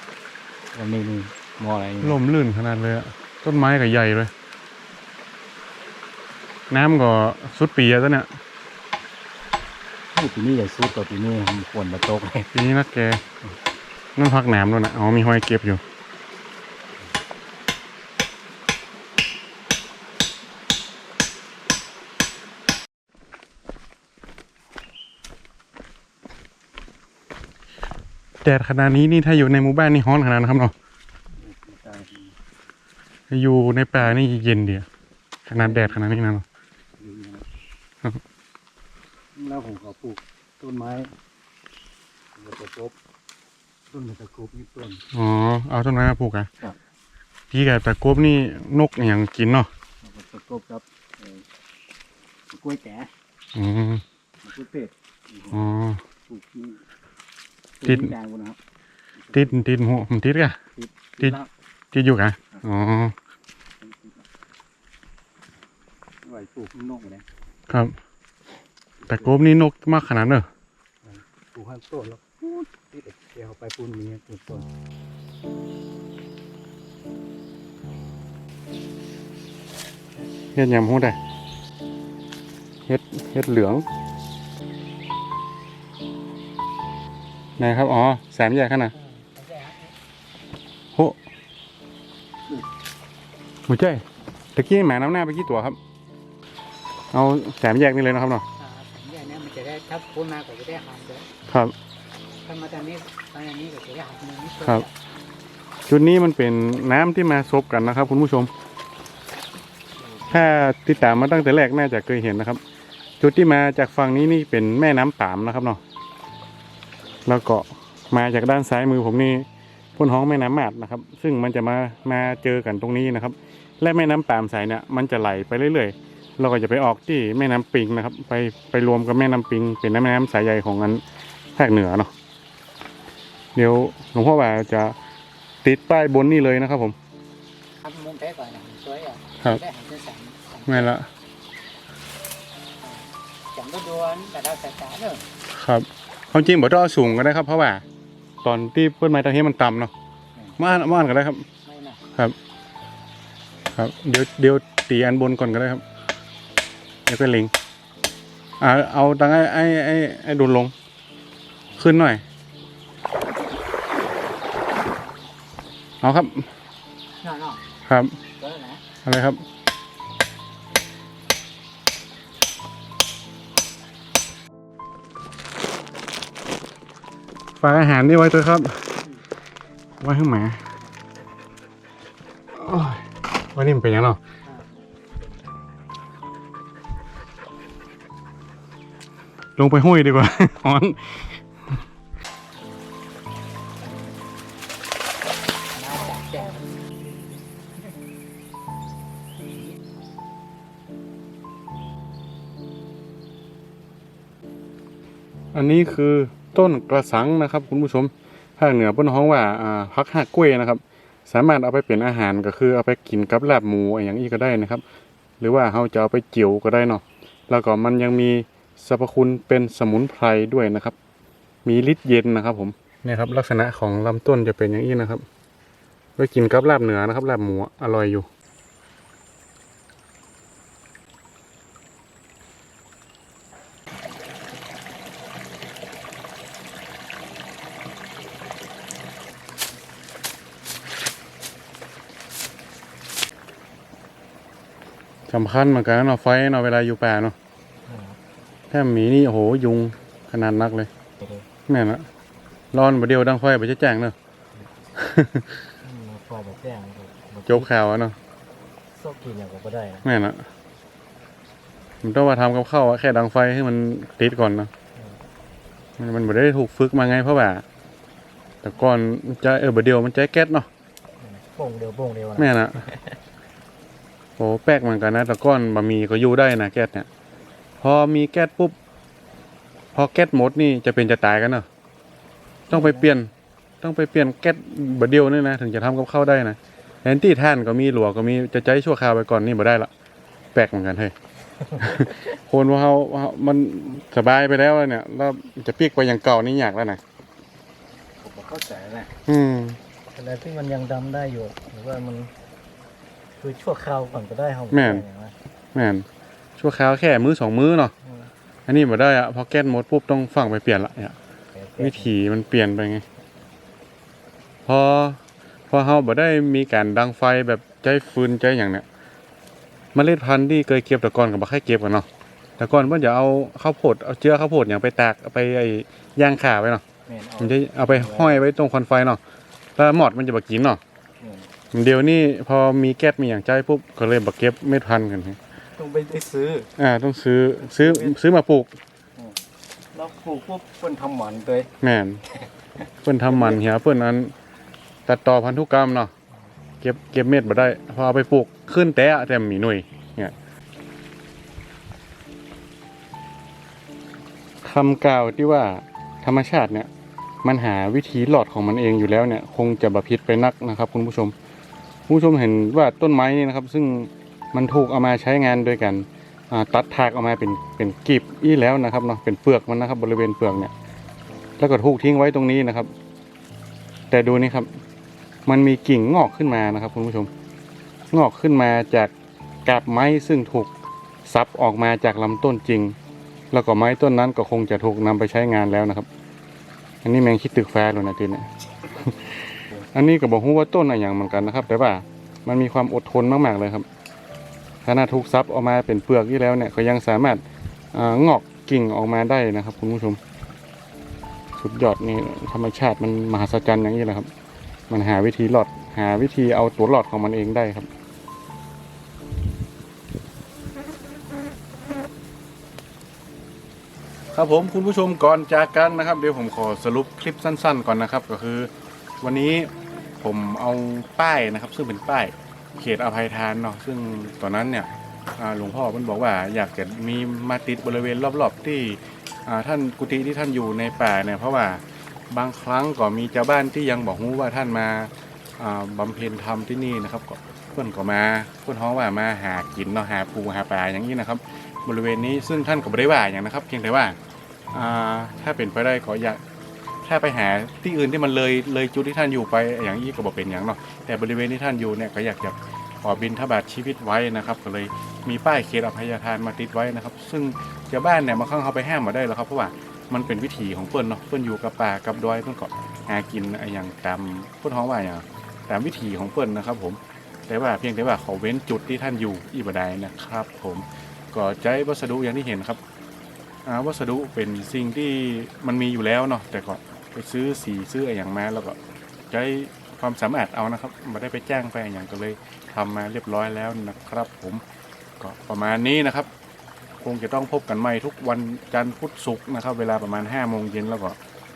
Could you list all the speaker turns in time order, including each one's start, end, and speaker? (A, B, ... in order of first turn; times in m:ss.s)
0:00.7-0:02.2 A
0:02.0-0:04.3 B
0:06.7-0:08.3 B
0:10.1-0:12.5 A
0:12.5-0:13.2 B
0:14.2-0:15.8 B
0:28.4-0:30.7 B
0:31.4-0:32.4 A
0:33.3-0:34.9 B
0:35.5-0:36.4 B
0:35.6-0:36.0 A
0:37.0-0:37.4 A
0:39.4-0:41.1 A
0:42.4-0:42.9 A
0:43.9-0:45.0 A
0:45.1-0:46.5 B
0:47.5-0:49.7 B
0:50.0-0:51.4 A
0:52.5-0:53.1 A
0:53.6-0:54.0 B
0:54.4-0:55.6 A
0:55.5-0:56.0 B
0:56.3-0:56.8 A
0:57.8-0:58.6 A
0:57.8-0:58.1 B
0:59.2-0:59.7 A
0:59.3-1:00.6 B
1:00.8-1:01.5 A
1:01.9-1:03.2 B
1:03.8-1:04.2 A
1:06.2-1:07.3 A
1:07.7-1:08.0 B
1:09.0-1:09.4 A
1:09.1-1:10.5 B
1:11.0-1:14.7 A
1:20.6-1:21.2 B
1:22.9-1:23.8 B
1:27.6-1:28.9 B
1:28.9-1:29.9 C
1:33.7-1:34.0 B
1:34.6-1:35.8 B
1:37.1-1:38.4 B
1:38.6-1:41.3 C
1:41.5-1:41.7 B
1:42.4-1:44.9 C
1:45.9-1:48.5 B
1:50.3-1:52.6 B
1:53.2-1:55.8 B
1:57.3-2:11.0 B
2:11.6-2:12.1 B
2:13.6-2:15.0 B
2:15.6-2:17.0 B
2:17.8-2:20.9 C
2:20.7-2:21.1 B
2:22.8-2:25.3 C
2:25.5-2:27.8 B
2:28.4-2:29.9 B
2:30.6-2:31.5 B
2:31.7-2:32.0 C
2:33.7-2:35.8 B
2:37.1-2:37.5 B
2:38.6-2:40.7 B
2:41.8-2:42.2 B
2:46.0-2:46.5 B
2:47.2-2:47.6 C
2:47.9-2:48.2 B
2:48.4-2:48.8 C
2:49.0-2:49.4 B
2:57.6-2:59.0 B
3:00.0-3:00.6 B
3:02.6-3:03.0 B
3:03.6-3:04.2 B
3:09.6-3:11.4 B
3:15.7-3:16.8 C
3:19.5-3:19.8 C
3:25.5-3:34.8 B
3:35.4-3:41.0 B
3:41.6-3:45.2 B
3:46.2-3:48.3 B
4:05.3-4:07.4 B
4:07.9-4:08.2 A
4:08.7-4:10.9 B
4:11.7-4:12.1 B
4:12.7-4:14.2 B
4:15.0-4:15.5 B
4:15.8-4:17.7 A
4:17.5-4:18.2 B
4:18.9-4:20.1 A
4:20.0-4:20.5 B
4:22.0-4:24.7 B
4:26.0-4:27.6 B
4:28.6-4:30.7 B
4:31.2-4:33.2 A
4:32.4-4:32.8 B
4:34.4-4:37.1 B
4:37.8-4:38.8 B
4:39.9-4:41.7 B
4:42.7-4:43.3 B
4:42.7-4:43.0 A
4:43.8-4:49.9 B
4:50.5-4:51.1 B
4:51.8-4:57.0 B
4:58.2-4:59.1 A
4:59.3-4:59.8 B
5:00.1-5:02.3 A
5:03.4-5:05.3 A
5:04.7-5:05.1 B
5:05.7-5:06.1 B
5:06.6-5:07.9 B
5:08.7-5:11.2 B
5:11.6-5:12.1 A
5:11.8-5:13.0 B
5:14.7-5:18.9 B
5:19.9-5:22.1 B
5:22.6-5:26.8 B
5:27.1-5:28.4 A
5:27.4-5:29.2 B
5:29.8-5:30.8 B
5:31.2-5:31.5 A
5:31.7-5:35.4 B
5:35.8-5:36.7 A
5:36.8-5:38.7 B
5:37.8-5:38.2 A
5:39.9-5:41.7 A
5:41.8-5:42.2 B
5:43.0-5:44.3 B
5:43.3-5:43.6 A
5:45.1-5:46.1 B
5:46.8-5:50.4 B
5:54.6-5:56.9 B
5:57.4-6:01.3 B
6:02.1-6:10.7 B
6:11.6-6:12.9 B
6:14.1-6:14.7 B
6:15.5-6:17.3 B
6:18.1-6:19.1 B
6:19.6-6:20.7 B
6:21.3-6:23.0 B
6:23.5-6:26.1 B
6:27.0-6:33.9 B
6:34.8-6:37.4 B
6:37.9-6:40.2 B
6:41.6-6:44.3 B
6:44.9-6:47.9 B
6:54.3-6:58.7 B
6:59.2-6:59.7 B
7:00.2-7:24.2 B
7:24.7-7:26.4 B
7:27.0-7:52.8 B
7:53.6-7:58.8 B
7:59.3-8:04.6 B
8:05.2-8:06.3 B
8:07.0-8:11.2 B